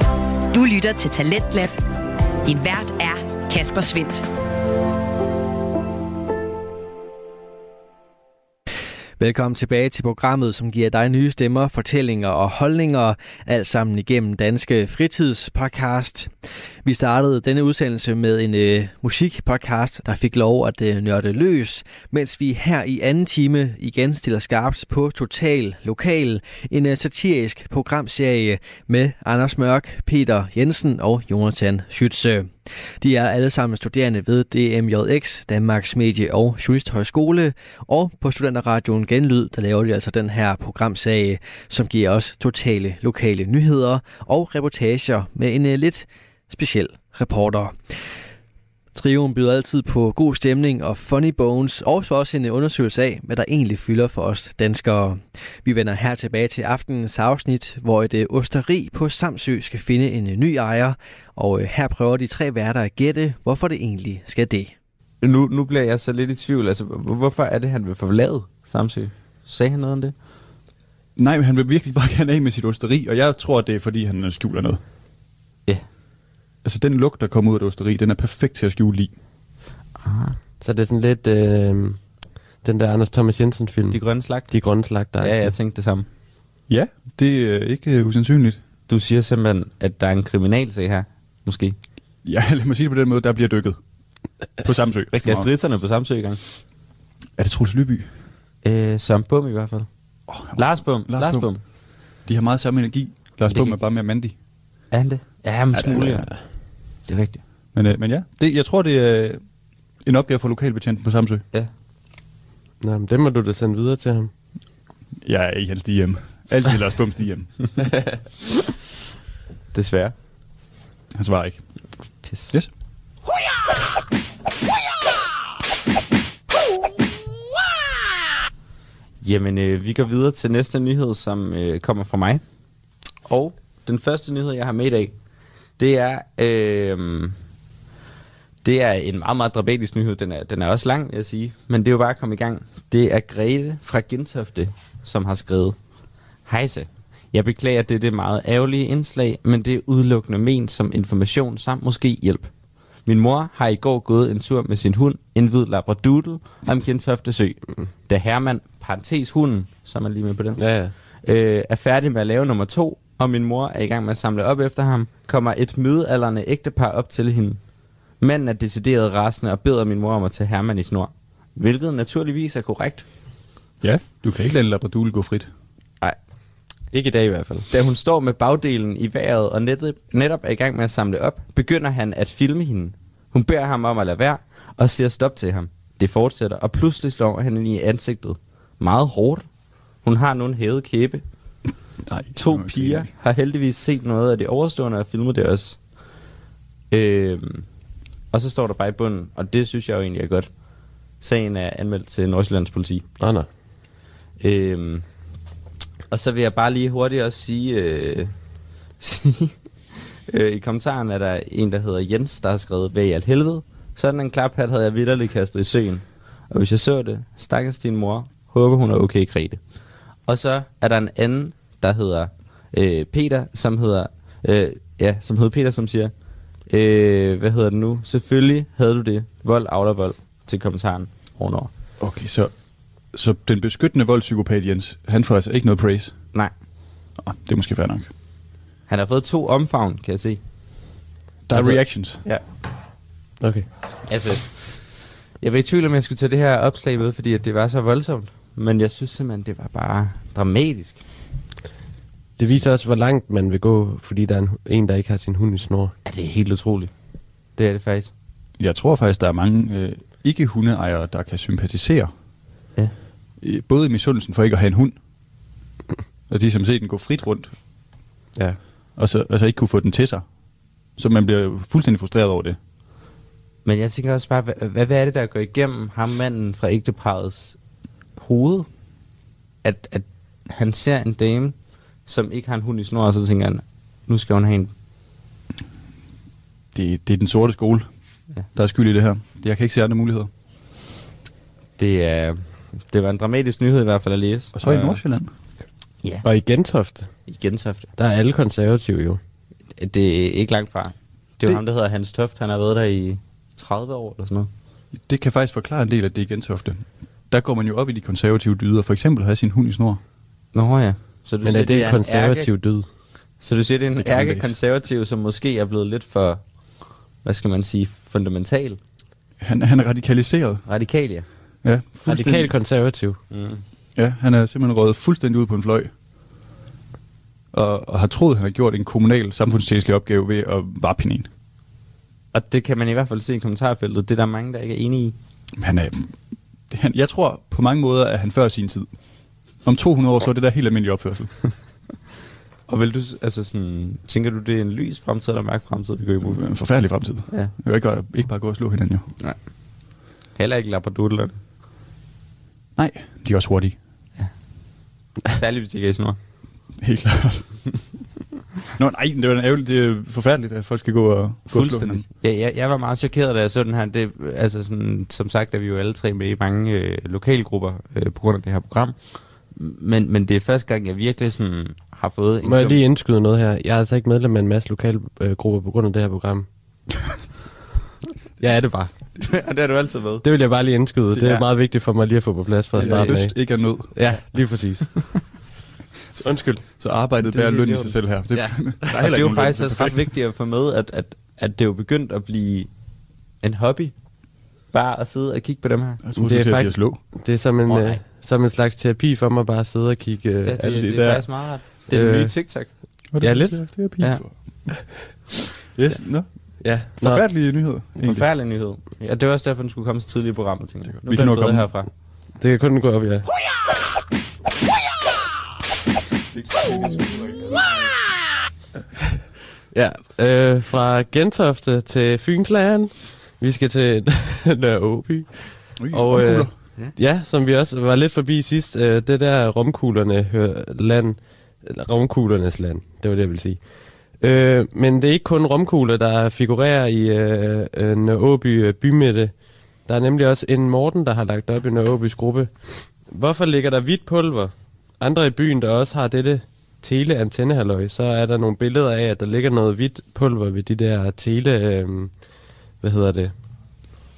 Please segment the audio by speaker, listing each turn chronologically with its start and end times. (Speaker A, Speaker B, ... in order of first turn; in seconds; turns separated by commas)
Speaker A: 0.5-1.8, Speaker A: 2.4-4.2, Speaker B: 9.2-16.3, Speaker B: 16.8-47.8, Speaker B: 48.9-64.7, Speaker C: 65.2-70.1, Speaker D: 71.2-74.8, Speaker D: 76.6-79.1, Speaker C: 80.0-80.4, Speaker E: 80.6-82.0, Speaker E: 82.6-85.5, Speaker C: 83.9-84.6, Speaker C: 85.2-86.0, Speaker D: 86.7-88.6, Speaker C: 88.9-91.8, Speaker D: 92.2-93.8, Speaker D: 94.6-95.5, Speaker C: 95.1-96.4, Speaker D: 97.4-98.1, Speaker C: 98.6-99.9, Speaker D: 100.3-101.5, Speaker C: 100.5-101.6, Speaker D: 102.2-104.3, Speaker C: 103.5-103.7, Speaker C: 104.9-106.3, Speaker D: 105.7-106.3, Speaker C: 107.1-107.4, Speaker D: 107.7-109.4, Speaker D: 110.0-111.4, Speaker E: 112.8-114.3, Speaker D: 115.2-117.6, Speaker C: 119.7-120.1, Speaker D: 121.1-121.6, Speaker C: 122.2-122.5, Speaker C: 129.2-132.4, Speaker C: 133.2-135.1, Speaker C: 135.8-137.3, Speaker C: 138.6-145.8, Speaker C: 146.4-152.5, Speaker C: 153.0-160.6, Speaker E: 160.6-160.9, Speaker C: 161.2-167.6, Speaker C: 168.2-173.1, Speaker D: 173.8-175.5, Speaker E: 176.9-177.7, Speaker C: 177.7-189.4, Speaker C: 190.0-191.2, Speaker D: 192.0-193.1, Speaker C: 192.3-195.8, Speaker C: 196.9-197.7, Speaker C: 198.3-200.5, Speaker C: 201.2-203.1, Speaker E: 203.2-203.5, Speaker C: 204.4-205.0, Speaker C: 206.1-208.3, Speaker C: 209.0-209.6, Speaker C: 210.3-219.6, Speaker C: 220.3-226.1, Speaker C: 226.7-231.7, Speaker D: 232.0-232.5, Speaker D: 233.1-236.2, Speaker D: 237.2-238.1, Speaker C: 238.9-240.4, Speaker D: 241.5-242.2, Speaker E: 243.4-243.7, Speaker C: 244.1-251.0, Speaker E: 252.4-255.9, Speaker C: 256.0-256.9, Speaker C: 257.6-258.1, Speaker D: 258.6-262.1, Speaker D: 263.4-264.9, Speaker D: 266.3-267.5, Speaker D: 268.9-270.2, Speaker D: 271.0-272.6, Speaker C: 273.6-277.6, Speaker C: 278.2-278.7, Speaker C: 279.6-281.5, Speaker C: 282.1-284.7, Speaker D: 286.7-287.9, Speaker D: 288.5-290.3, Speaker C: 291.8-295.0, Speaker D: 294.5-295.3, Speaker E: 296.2-297.1, Speaker C: 297.3-297.9, Speaker E: 298.0-299.2, Speaker C: 299.8-304.5, Speaker D: 304.9-310.0, Speaker C: 310.5-312.5, Speaker E: 311.4-312.9, Speaker C: 313.4-316.4, Speaker D: 314.0-314.5, Speaker C: 317.2-318.8, Speaker D: 319.4-320.6, Speaker C: 320.6-321.3, Speaker D: 321.6-322.5, Speaker E: 322.0-323.2, Speaker C: 323.3-323.6, Speaker D: 323.9-325.9, Speaker D: 327.5-331.3, Speaker C: 332.3-335.1, Speaker D: 335.6-336.1, Speaker D: 336.7-338.9, Speaker D: 339.6-341.3, Speaker C: 342.7-346.4, Speaker D: 346.2-349.1, Speaker C: 350.4-351.4, Speaker D: 352.8-353.8, Speaker C: 355.2-356.2, Speaker D: 356.8-357.4, Speaker D: 358.8-362.1, Speaker C: 361.5-369.0, Speaker C: 369.5-372.8, Speaker E: 372.4-376.5, Speaker E: 378.4-378.9, Speaker C: 379.2-380.2, Speaker E: 380.2-385.0, Speaker C: 381.1-381.4, Speaker D: 382.8-383.9, Speaker C: 382.8-383.1, Speaker E: 386.2-386.6, Speaker D: 386.8-390.1, Speaker C: 387.3-392.7, Speaker C: 393.4-393.9, Speaker C: 394.7-396.0, Speaker D: 396.0-397.0, Speaker E: 396.2-400.7, Speaker C: 397.7-398.0, Speaker C: 400.4-402.7, Speaker D: 400.6-401.3, Speaker E: 401.9-402.3, Speaker D: 403.1-404.4, Speaker E: 403.2-403.6, Speaker D: 405.7-406.3, Speaker E: 406.6-407.2, Speaker D: 406.8-408.3, Speaker C: 408.0-411.9, Speaker D: 410.9-411.7, Speaker E: 412.4-413.3, Speaker C: 416.4-417.6, Speaker E: 419.7-433.6, Speaker D: 425.8-426.5, Speaker E: 434.2-439.3, Speaker E: 439.8-452.1, Speaker E: 452.8-453.3